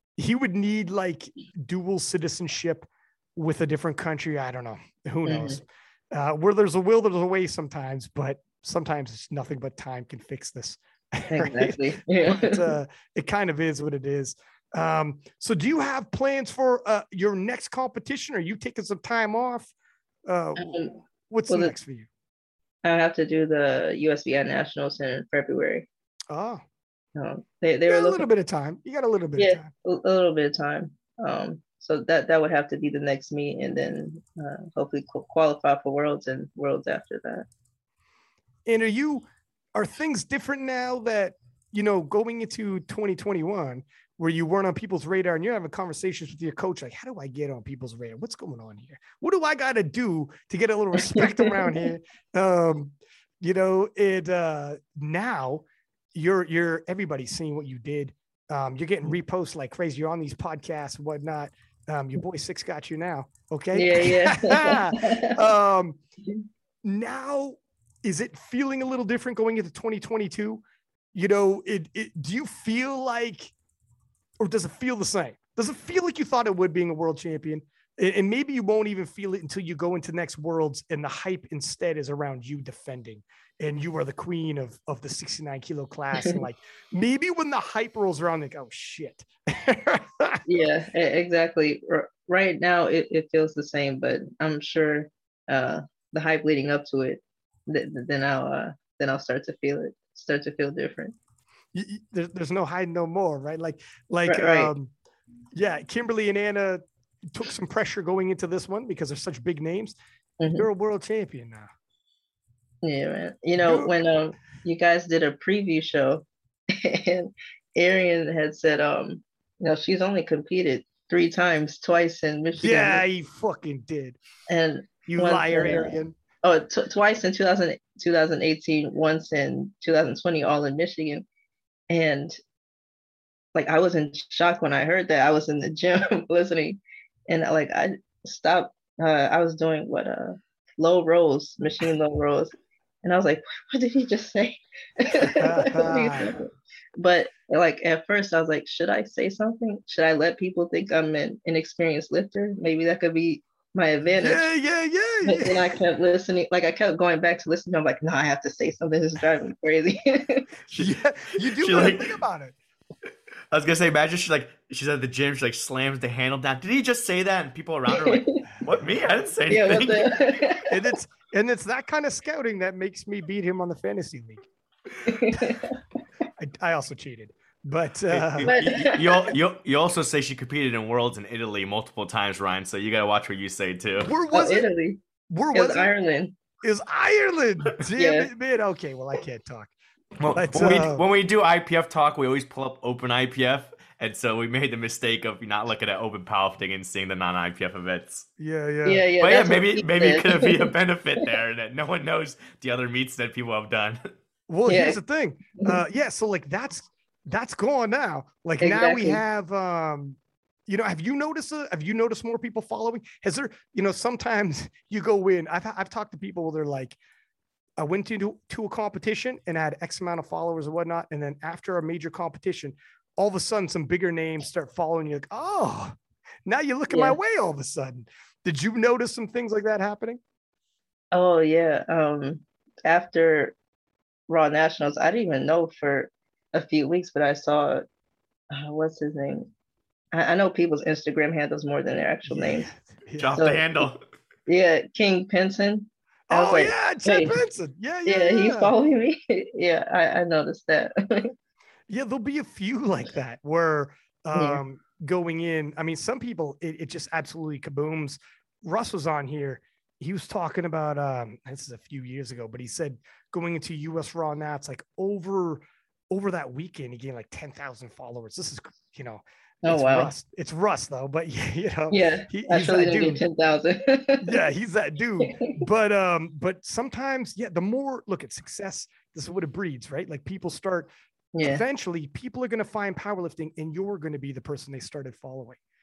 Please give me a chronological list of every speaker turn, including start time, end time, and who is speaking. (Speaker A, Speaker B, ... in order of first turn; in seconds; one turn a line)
Speaker A: 0.2-19.7
Speaker B: 5.2-5.6
Speaker B: 11.3-12.7
Speaker A: 20.2-22.1
Speaker B: 20.6-21.7
Speaker B: 22.8-25.9
Speaker A: 26.3-26.6
Speaker B: 27.1-28.2
Speaker A: 27.9-29.7
Speaker B: 29.4-37.5
Speaker A: 38.6-66.0
Speaker B: 51.1-51.8
Speaker B: 63.7-65.3
Speaker A: 66.8-73.5
Speaker A: 74.4-90.4
Speaker B: 90.5-101.1
Speaker A: 101.7-104.9
Speaker B: 104.3-104.7
Speaker A: 105.5-110.0
Speaker B: 110.4-110.7
Speaker A: 110.5-111.7
Speaker B: 112.8-123.0
Speaker A: 113.6-113.9
Speaker A: 122.6-124.2
Speaker B: 124.5-131.2
Speaker A: 125.1-126.2
Speaker B: 131.9-132.4
Speaker B: 133.5-154.5
Speaker A: 145.2-146.3
Speaker A: 154.2-155.7
Speaker B: 155.2-160.4
Speaker C: 160.7-162.2
Speaker A: 160.7-162.6
Speaker C: 163.5-170.2
Speaker B: 167.9-168.4
Speaker B: 169.5-170.9
Speaker A: 170.7-174.4
Speaker B: 175.0-175.8
Speaker A: 175.3-175.6
Speaker A: 176.4-178.5
Speaker C: 178.1-184.1
Speaker B: 178.4-179.3
Speaker A: 184.0-184.7
Speaker B: 184.3-185.0
Speaker A: 185.3-185.9
Speaker B: 185.5-186.3
Speaker A: 186.6-189.7
Speaker B: 188.0-188.3
Speaker C: 190.2-198.3
Speaker A: 190.3-191.0
Speaker A: 198.4-199.1
Speaker B: 198.8-200.7
Speaker C: 199.2-204.1
Speaker A: 204.5-217.0
Speaker B: 204.7-205.0
Speaker B: 208.6-209.2
Speaker A: 217.8-230.2
Speaker B: 226.9-227.2
Speaker B: 231.1-233.5
Speaker B: 234.3-237.8
Speaker B: 238.5-239.5
Speaker B: 240.1-242.7
Speaker A: 242.3-243.4
Speaker C: 243.2-244.0
Speaker B: 243.3-243.8
Speaker B: 244.5-247.4
Speaker A: 246.3-248.7
Speaker B: 248.0-251.3
Speaker A: 251.9-273.2
Speaker B: 254.3-254.6
Speaker B: 269.6-270.1
Speaker B: 271.9-274.4
Speaker A: 274.2-280.9
Speaker B: 275.2-275.5
Speaker B: 281.3-281.6
Speaker A: 281.4-285.6